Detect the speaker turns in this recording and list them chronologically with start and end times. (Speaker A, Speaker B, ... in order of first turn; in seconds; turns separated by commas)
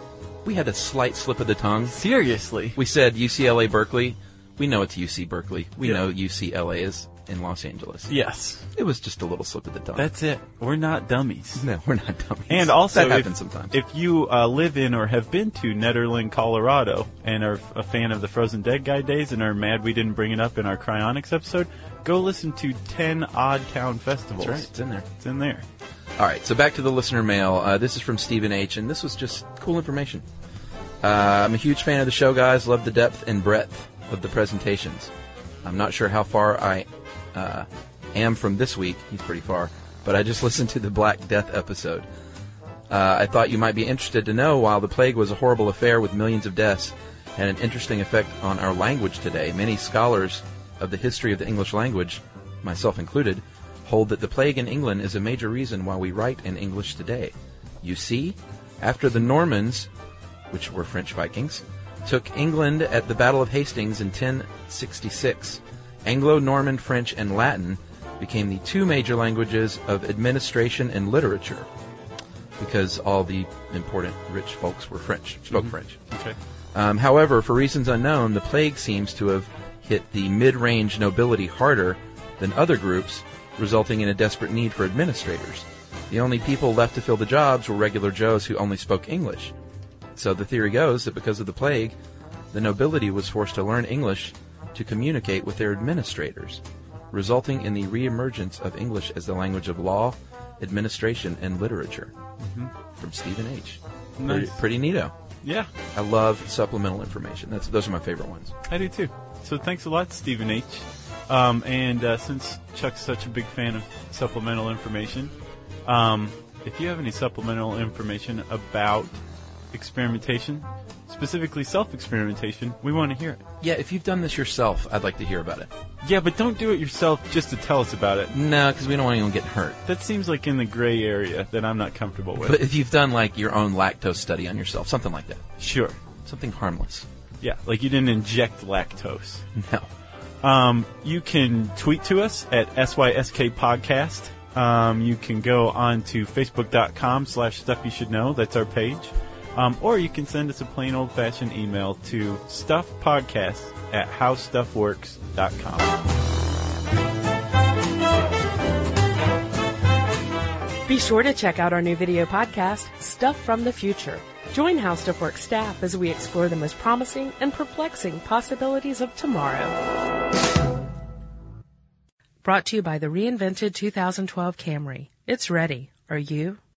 Speaker A: 0.5-2.0, Speaker B: 1.9-2.8, Speaker A: 2.8-8.1, Speaker B: 8.1-8.7, Speaker A: 8.7-10.1, Speaker B: 10.0-11.7, Speaker A: 11.6-13.8, Speaker B: 12.5-25.6, Speaker A: 24.4-25.1, Speaker A: 26.2-30.2, Speaker A: 31.0-35.1, Speaker A: 35.6-42.1, Speaker A: 42.9-59.9, Speaker A: 60.5-71.7, Speaker A: 72.6-76.0, Speaker B: 75.5-76.4, Speaker A: 76.7-89.5, Speaker A: 90.2-92.0, Speaker A: 92.5-102.1, Speaker B: 102.4-102.7, Speaker A: 103.0-105.2, Speaker B: 104.2-104.6, Speaker B: 105.4-105.7, Speaker A: 105.9-108.5, Speaker B: 108.7-115.3, Speaker B: 115.8-119.2, Speaker B: 119.7-123.4, Speaker A: 123.6-125.7, Speaker B: 126.0-128.3, Speaker A: 128.3-129.8, Speaker B: 129.8-132.6, Speaker A: 132.4-135.4, Speaker B: 135.6-136.0, Speaker A: 136.2-137.1, Speaker B: 137.4-139.4, Speaker A: 139.6-139.9, Speaker B: 140.4-156.0, Speaker C: 160.9-169.8, Speaker C: 172.4-176.6